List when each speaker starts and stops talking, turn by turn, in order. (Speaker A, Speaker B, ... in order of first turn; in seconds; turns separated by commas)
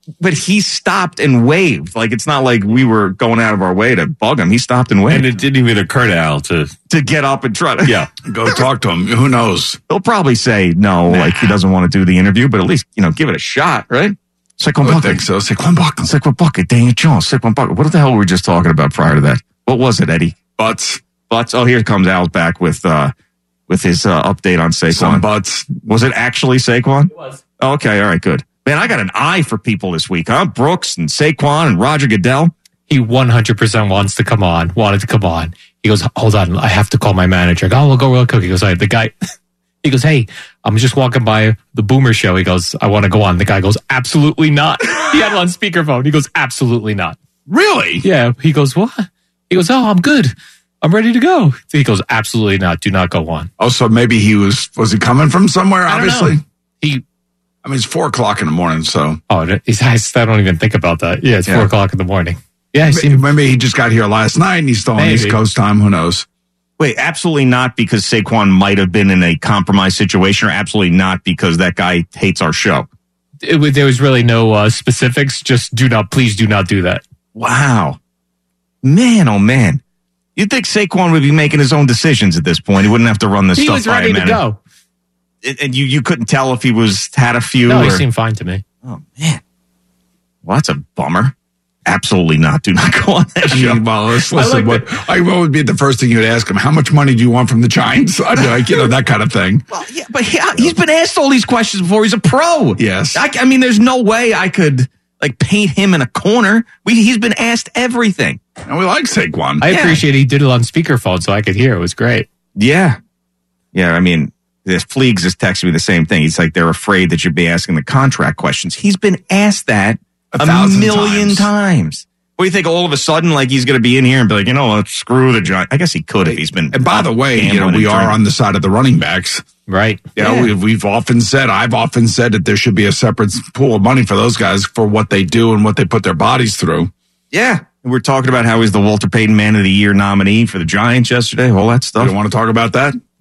Speaker A: 0.2-5.3, Speaker B: 5.1-6.7, Speaker A: 6.9-8.6, Speaker B: 7.8-8.1, Speaker C: 8.3-9.8, Speaker A: 9.9-15.2, Speaker C: 14.8-16.1, Speaker A: 16.0-20.4, Speaker C: 20.6-21.0, Speaker A: 21.3-23.1, Speaker A: 23.7-25.3, Speaker C: 24.9-25.7, Speaker A: 25.8-32.5, Speaker D: 32.9-39.1, Speaker D: 39.8-47.2, Speaker C: 47.5-48.0, Speaker D: 48.0-53.5, Speaker C: 53.6-56.4, Speaker D: 55.9-57.0, Speaker C: 57.6-59.2, Speaker D: 59.3-63.2, Speaker C: 61.5-61.7, Speaker C: 62.9-66.3, Speaker D: 65.0-65.4, Speaker A: 66.8-72.9, Speaker D: 73.5-77.0, Speaker A: 77.3-78.0, Speaker A: 78.8-79.8, Speaker A: 80.4-84.4, Speaker D: 83.6-84.6, Speaker A: 85.4-88.0, Speaker D: 87.7-88.6, Speaker A: 88.8-89.4, Speaker A: 90.5-91.3, Speaker A: 91.9-94.6, Speaker C: 93.5-99.7, Speaker A: 98.4-98.8, Speaker A: 99.7-108.4, Speaker C: 102.8-103.2, Speaker C: 108.7-109.7, Speaker D: 109.6-112.3, Speaker A: 109.7-110.0, Speaker A: 112.6-113.0, Speaker A: 113.7-128.2, Speaker C: 120.3-121.5, Speaker C: 126.2-129.4, Speaker D: 129.7-130.0, Speaker C: 130.2-136.9, Speaker A: 130.2-130.5, Speaker A: 137.3-142.2, Speaker C: 142.0-143.0